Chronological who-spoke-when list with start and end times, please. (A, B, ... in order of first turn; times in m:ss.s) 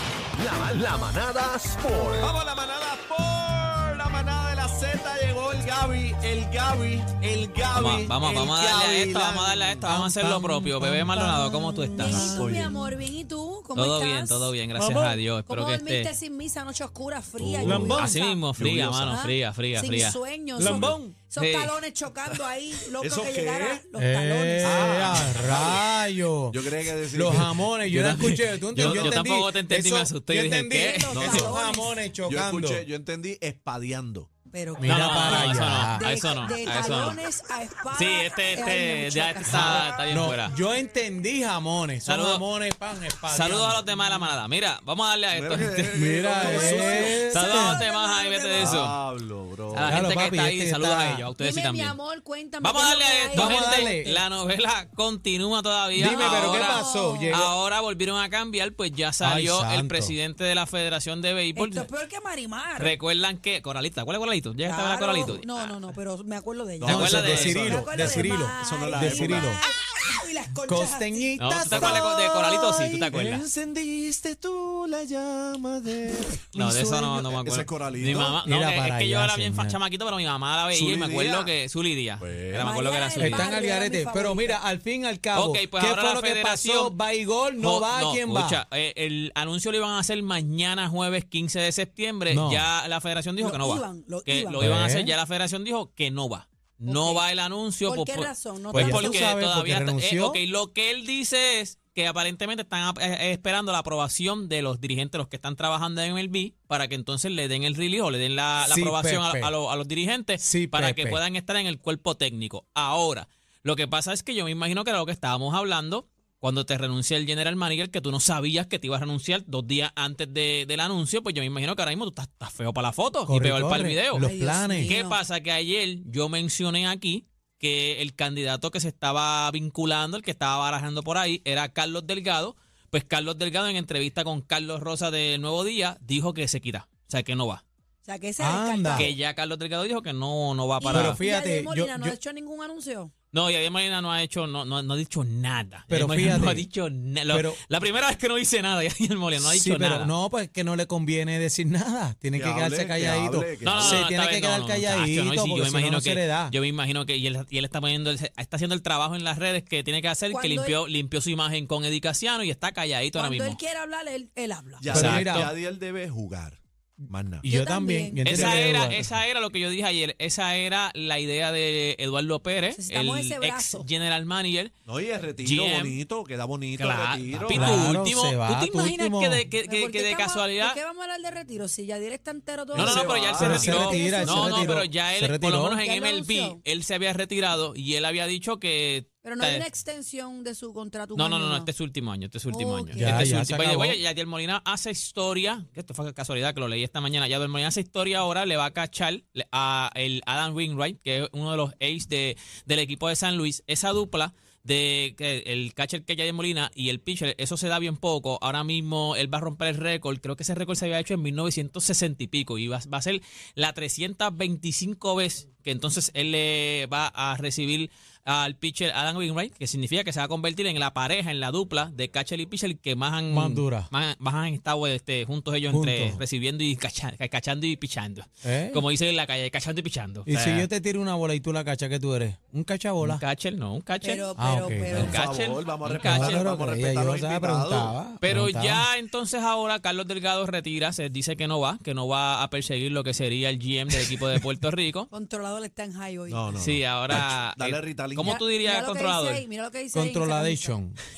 0:00.3-0:02.3 A
0:02.2-0:09.9 B
0:07.7-0:12.4 C
0:09.9-0:12.4 D
0:11.9-0:14.6 E
0:12.1-0:12.8 B
0:13.8-0:16.1 C
0:14.8-0:15.2 D
0:15.5-0:18.4 E
0:17.4-0:19.2 B
0:17.6-0:18.2 D
0:17.9-0:21.8 C
0:19.1-0:25.4 E
0:20.6-0:21.2 D
0:20.7-0:21.0 B
0:22.3-0:23.9 B
0:24.0-0:32.8 D
0:24.6-0:28.2 B
0:27.9-0:31.2 C
0:28.8-0:29.2 B
0:30.8-0:32.1 E
0:31.1-0:31.6 B
0:32.2-0:34.3 B
0:34.5-0:40.1 E
0:34.8-0:36.0 D
0:34.8-0:37.2 C
0:37.9-0:40.6 C
0:39.5-0:43.9 D
0:42.1-0:42.4 C
0:43.2-0:49.0 C
0:45.3-0:47.3 B
0:46.0-0:47.8 D
0:46.4-0:48.7 E
0:48.6-0:50.1 B
0:49.7-0:52.0 C
0:49.8-0:51.3 D
0:51.4-0:54.0 E
0:52.6-1:01.9 C
0:53.3-0:54.2 D
0:55.9-0:57.5 D
0:56.1-0:57.4 E
0:59.2-1:00.2 D
1:01.6-1:03.0 E
1:02.8-1:06.0 C
1:04.6-1:11.9 E
1:06.8-1:09.6 B
1:06.8-1:07.7 C
1:06.8-1:09.6 D
1:10.7-1:12.1 D
1:11.4-1:13.4 C
1:11.6-1:18.4 B
1:16.5-1:23.5 C
1:18.4-1:19.8 D
1:20.7-1:21.5 B
1:22.2-1:22.8 B
1:22.6-1:24.6 E
1:23.2-1:28.6 D
1:25.3-1:27.0 C
1:27.6-2:17.6 C
1:32.3-1:32.7 D
1:33.4-1:34.7 E
1:34.6-1:35.2 D
1:36.9-1:37.2 E
1:37.8-1:39.3 E
1:38.7-1:40.4 D
1:48.6-1:49.5 D
1:50.4-1:51.2 D
2:03.3-2:04.9 D
2:04.2-2:05.2 E
2:18.0-2:19.1 E
2:18.4-2:19.1 D
2:19.0-2:21.2 C
2:20.8-2:23.1 E
2:20.9-2:22.2 D
2:23.3-2:30.1 C
2:25.9-2:26.7 D
2:27.3-2:27.6 D
2:29.4-2:36.6 D
2:32.4-2:34.1 B
2:33.6-2:43.6 C
2:40.3-2:40.8 E
2:43.2-2:45.0 E
2:44.8-2:47.5 B
2:44.8-2:45.6 C
2:44.9-2:45.5 D
2:47.4-2:49.2 D
2:47.4-2:48.3 E
2:48.2-2:54.7 C
2:48.3-2:48.7 B
2:52.7-2:53.9 E
2:54.9-2:58.0 B
2:55.4-2:56.0 C
2:56.8-3:00.8 C
2:57.5-2:59.4 D
2:59.6-3:04.8 E
3:02.7-3:03.8 B
3:02.7-3:09.6 C
3:03.3-3:05.8 D
3:05.8-3:06.6 E
3:09.2-3:11.7 E
3:11.1-3:50.7 C
3:12.5-3:13.4 E
3:13.0-3:14.0 D
3:43.3-3:43.9 D
3:45.7-3:46.2 D
3:48.4-3:48.8 D
3:50.3-3:53.2 D
3:53.0-3:54.3 C
3:54.0-3:55.2 E
3:54.4-3:55.2 D
3:54.9-3:56.5 C
3:54.9-3:58.0 B
3:56.0-3:58.9 D
3:58.2-4:05.1 C
4:05.1-4:06.4 E
4:06.3-4:08.4 B
4:06.6-4:09.5 C
4:08.2-4:10.8 E
4:09.9-4:11.0 D